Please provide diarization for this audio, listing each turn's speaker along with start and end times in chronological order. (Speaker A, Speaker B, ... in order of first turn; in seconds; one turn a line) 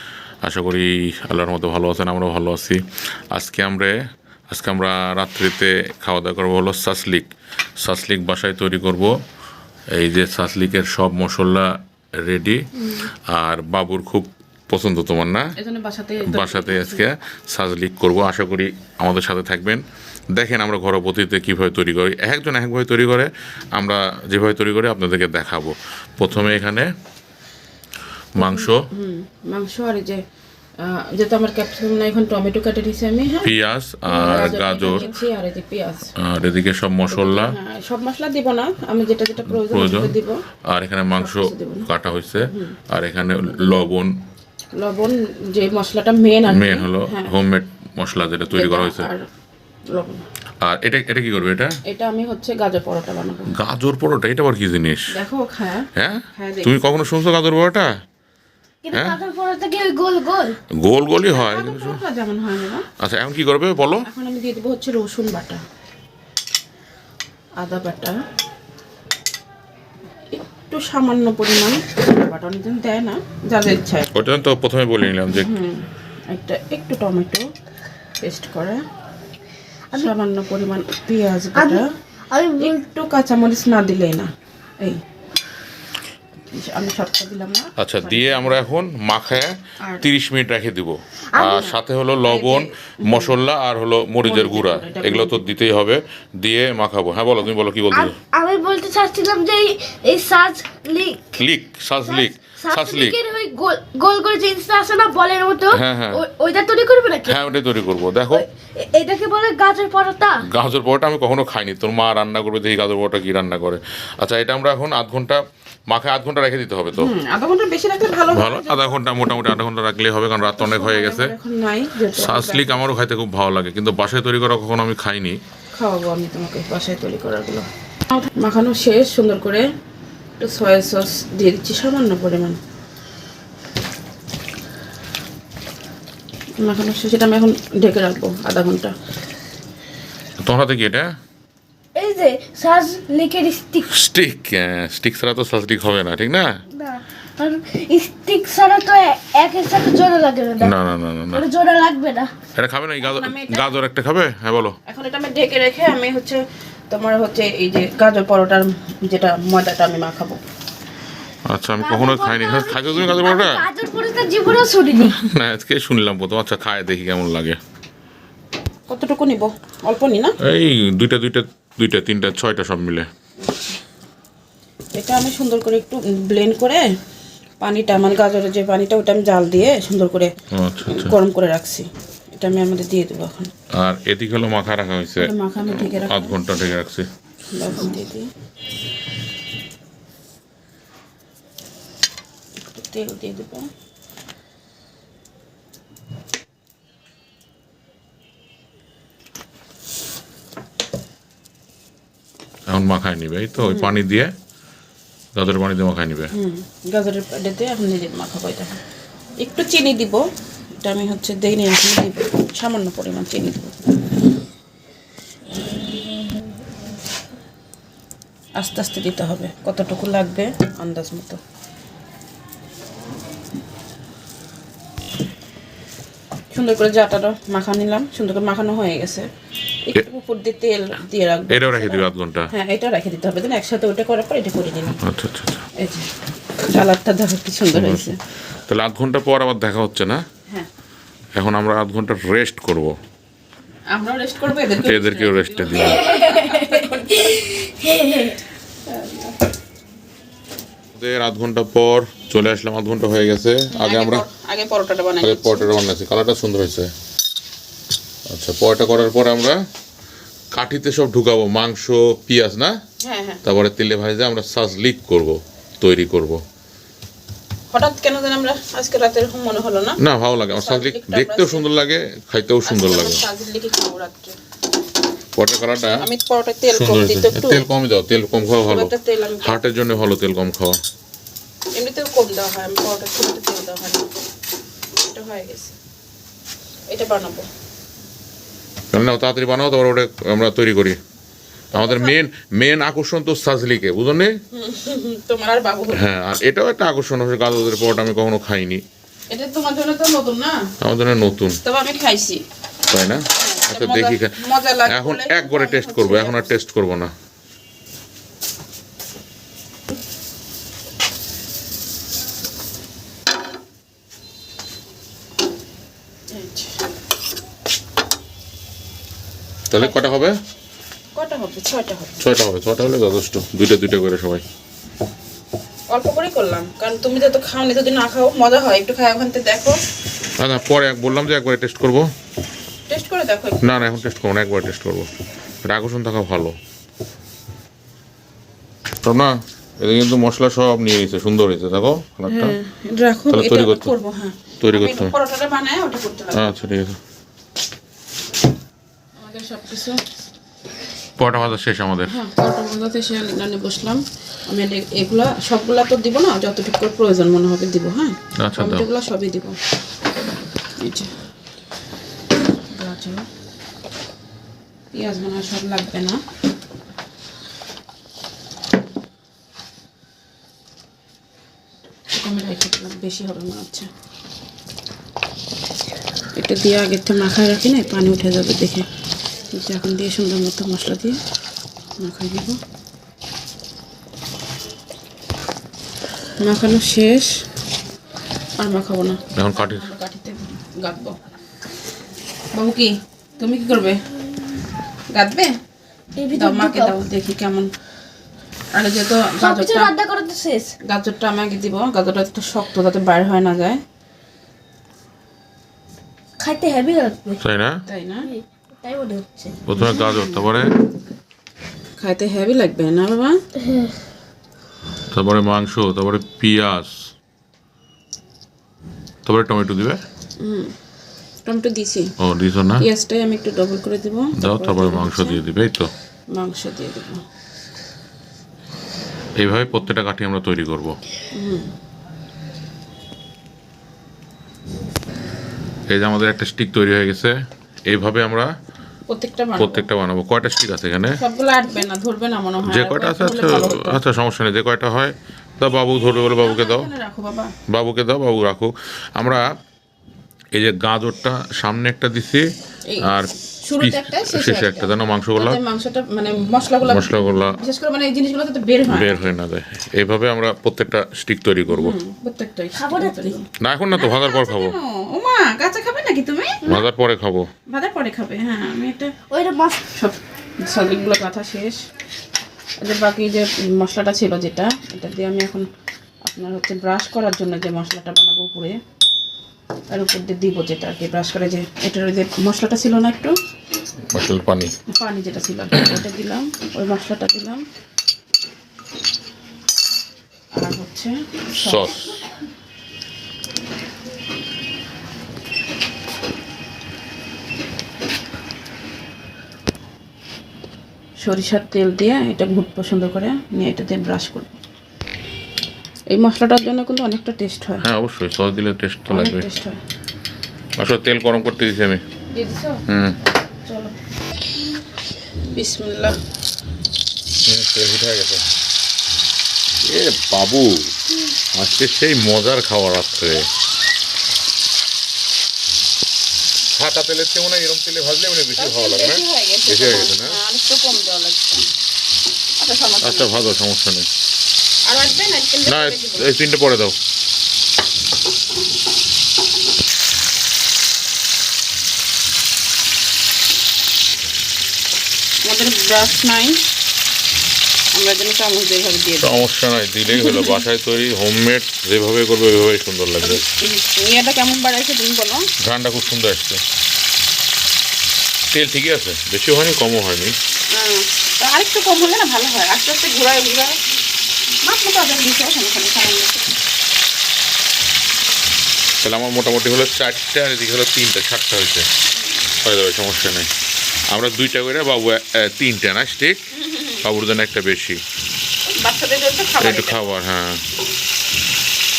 Speaker A: 0.4-2.8
Speaker A: 3.3-3.9
Speaker A: 4.5-7.3
Speaker A: 7.8-9.1
Speaker A: 9.9-12.6
Speaker A: 13.3-15.5
Speaker B: 15.6-17.0
Speaker A: 16.2-19.8
Speaker A: 20.3-26.9
Speaker A: 28.3-28.8
Speaker B: 28.4-30.2
Speaker B: 30.8-33.5
Speaker A: 33.4-35.0
Speaker B: 34.0-36.1
Speaker A: 36.2-37.5
Speaker B: 37.1-40.4
Speaker A: 39.5-40.1
Speaker A: 40.7-44.1
Speaker B: 41.2-41.9
Speaker B: 42.5-42.8
Speaker B: 44.7-47.3
Speaker A: 46.5-49.1
Speaker B: 48.5-49.2
Speaker B: 49.9-50.2
Speaker A: 50.6-51.8
Speaker B: 51.9-53.5
Speaker A: 53.5-55.1
Speaker B: 55.1-57.0
Speaker A: 56.0-58.0
Speaker C: 58.8-60.6
Speaker A: 58.9-59.2
Speaker A: 60.7-62.0
Speaker B: 61.3-62.9
Speaker A: 63.0-64.0
Speaker B: 64.0-65.6
Speaker B: 67.6-68.2
Speaker B: 70.3-74.1
Speaker A: 74.1-75.6
Speaker B: 75.4-77.4
Speaker B: 78.2-78.8
Speaker B: 79.9-81.8
Speaker C: 81.5-82.8
Speaker B: 82.6-84.3
Speaker B: 86.5-88.6
Speaker A: 87.8-98.1
Speaker C: 91.3-91.7
Speaker B: 91.6-93.3
Speaker B: 94.2-95.4
Speaker C: 97.9-101.3
Speaker A: 101.3-103.2
Speaker C: 102.0-107.4
Speaker A: 105.7-106.2
Speaker A: 107.2-108.4
Speaker C: 108.3-110.4
Speaker A: 110.5-117.1
Speaker B: 117.0-118.8
Speaker A: 118.3-121.3
Speaker B: 120.6-122.8
Speaker A: 122.1-125.4
Speaker B: 125.8-129.6
Speaker B: 130.4-132.6
Speaker B: 136.6-138.9
Speaker A: 140.4-141.1
Speaker C: 141.9-143.9
Speaker A: 143.9-146.5
Speaker C: 146.7-150.8
Speaker A: 150.6-151.4
Speaker C: 151.3-152.3
Speaker A: 152.6-154.8
Speaker B: 153.0-153.7
Speaker B: 154.9-160.4
Speaker A: 161.5-163.6
Speaker C: 161.8-165.1
Speaker A: 164.9-167.6
Speaker B: 168.9-170.3
Speaker A: 170.4-173.1
Speaker B: 173.5-173.7
Speaker B: 174.9-176.8
Speaker B: 177.6-180.3
Speaker A: 180.5-181.1
Speaker B: 180.8-183.5
Speaker A: 183.8-187.1
Speaker B: 185.2-186.4
Speaker B: 187.5-188.3
Speaker B: 192.7-193.7
Speaker A: 202.7-204.3
Speaker B: 203.6-203.9
Speaker A: 205.3-206.3
Speaker B: 206.3-208.7
Speaker B: 209.4-210.2
Speaker B: 210.8-213.8
Speaker B: 218.6-221.4
Speaker B: 226.5-229.3
Speaker B: 229.8-235.0
Speaker A: 231.5-232.5
Speaker A: 235.0-235.6
Speaker B: 235.8-236.1
Speaker B: 236.7-238.2
Speaker A: 237.7-238.1
Speaker A: 238.7-240.2
Speaker A: 241.3-243.0
Speaker B: 243.9-247.4
Speaker A: 244.8-246.1
Speaker C: 245.9-246.5
Speaker C: 247.3-248.3
Speaker B: 248.9-249.4
Speaker A: 250.9-254.2
Speaker B: 253.7-255.7
Speaker A: 255.2-256.9
Speaker A: 258.3-259.6
Speaker A: 260.5-262.8
Speaker B: 263.0-263.4
Speaker A: 263.4-266.4
Speaker B: 267.7-270.0
Speaker A: 270.0-273.2
Speaker B: 270.5-271.7
Speaker B: 272.6-274.3
Speaker A: 275.4-276.0
Speaker B: 276.0-277.6
Speaker A: 276.7-280.8
Speaker B: 278.6-279.7
Speaker B: 281.8-284.1
Speaker B: 285.1-285.8
Speaker B: 286.9-287.4
Speaker A: 288.9-291.0
Speaker B: 291.7-292.1
Speaker A: 291.7-294.4
Speaker B: 294.5-296.1
Speaker A: 295.9-298.8
Speaker B: 299.3-300.6
Speaker A: 300.8-301.6
Speaker B: 301.6-302.4
Speaker A: 302.9-307.1
Speaker B: 303.4-306.6
Speaker B: 316.3-316.8
Speaker A: 319.7-320.4
Speaker B: 321.1-322.1
Speaker A: 322.2-324.4
Speaker B: 325.9-329.8
Speaker A: 330.4-332.1
Speaker B: 332.9-333.8
Speaker A: 333.6-335.1
Speaker A: 335.6-336.6
Speaker A: 339.0-342.6
Speaker B: 342.3-346.6
Speaker A: 343.3-343.9
Speaker A: 344.6-345.1
Speaker A: 346.3-347.0
Speaker B: 349.2-350.0
Speaker A: 351.2-352.2
Speaker B: 352.1-359.6
Speaker A: 358.4-358.8
Speaker B: 360.8-361.1
Speaker B: 362.7-363.2
Speaker B: 364.9-366.2
Speaker B: 372.1-373.9
Speaker B: 376.3-378.9
Speaker B: 379.5-381.2
Speaker B: 382.0-382.6
Speaker B: 386.4-387.3
Speaker B: 388.6-391.1
Speaker A: 389.3-389.9
Speaker B: 392.5-394.0
Speaker B: 395.1-395.5
Speaker C: 396.1-397.0
Speaker B: 396.3-397.7
Speaker B: 398.7-399.9
Speaker C: 399.4-400.7
Speaker B: 400.8-403.8
Speaker C: 406.4-407.4
Speaker A: 407.4-407.8
Speaker B: 407.9-408.3
Speaker C: 408.2-409.5
Speaker A: 409.6-410.7
Speaker B: 409.8-410.5
Speaker B: 412.0-413.4
Speaker C: 413.6-413.9
Speaker A: 415.1-417.0
Speaker A: 419.2-420.0
Speaker B: 420.4-420.7
Speaker B: 421.4-422.1
Speaker A: 422.2-422.9
Speaker B: 422.8-425.4
Speaker A: 424.4-425.9
Speaker B: 426.3-427.2
Speaker A: 429.4-431.0
Speaker B: 431.3-431.7
Speaker A: 435.9-437.4
Speaker A: 437.9-438.5
Speaker B: 439.1-439.9
Speaker A: 439.6-441.2
Speaker B: 441.2-444.0
Speaker A: 442.6-446.9
Speaker B: 446.4-447.5
Speaker A: 447.7-449.4
Speaker A: 450.5-452.5
Speaker B: 452.9-459.2
Speaker A: 453.0-455.6
Speaker A: 456.8-457.6
Speaker A: 458.9-462.0
Speaker B: 461.7-466.6
Speaker C: 462.7-463.4
Speaker A: 463.6-464.8
Speaker A: 466.6-467.5
Speaker B: 467.7-469.1
Speaker C: 469.3-469.9
Speaker B: 469.9-471.8
Speaker B: 472.8-475.7
Speaker B: 476.2-478.8
Speaker B: 479.9-483.3
Speaker A: 484.1-484.7
Speaker B: 484.9-487.6
Speaker B: 490.6-492.0
Speaker A: 491.6-492.2
Speaker B: 501.2-504.6
Speaker B: 506.1-507.8
Speaker A: 507.8-509.5
Speaker B: 509.1-509.8
Speaker A: 510.8-512.0
Speaker B: 512.3-512.8
Speaker A: 512.9-513.2
Speaker B: 513.7-513.9
Speaker B: 515.5-516.2
Speaker A: 517.5-518.4
Speaker A: 519.8-520.9
Speaker A: 521.5-523.5
Speaker A: 526.7-530.4
Speaker B: 528.6-531.6
Speaker B: 532.6-533.4
Speaker A: 533.0-534.1
Speaker B: 534.9-536.4
Speaker A: 535.6-537.0
Speaker B: 545.5-546.6
Speaker B: 547.9-549.4
Speaker A: 549.2-553.4
Speaker B: 550.1-550.6
Speaker B: 553.2-555.5
Speaker A: 555.6-556.6
Speaker A: 558.5-560.4
Speaker B: 560.7-563.8
Speaker B: 564.6-566.5
Speaker A: 569.0-571.9
Speaker A: 572.6-573.5
Speaker A: 574.1-576.5
Speaker B: 576.5-577.0
Speaker A: 577.0-578.0
Speaker B: 578.8-580.0
Speaker A: 579.6-580.6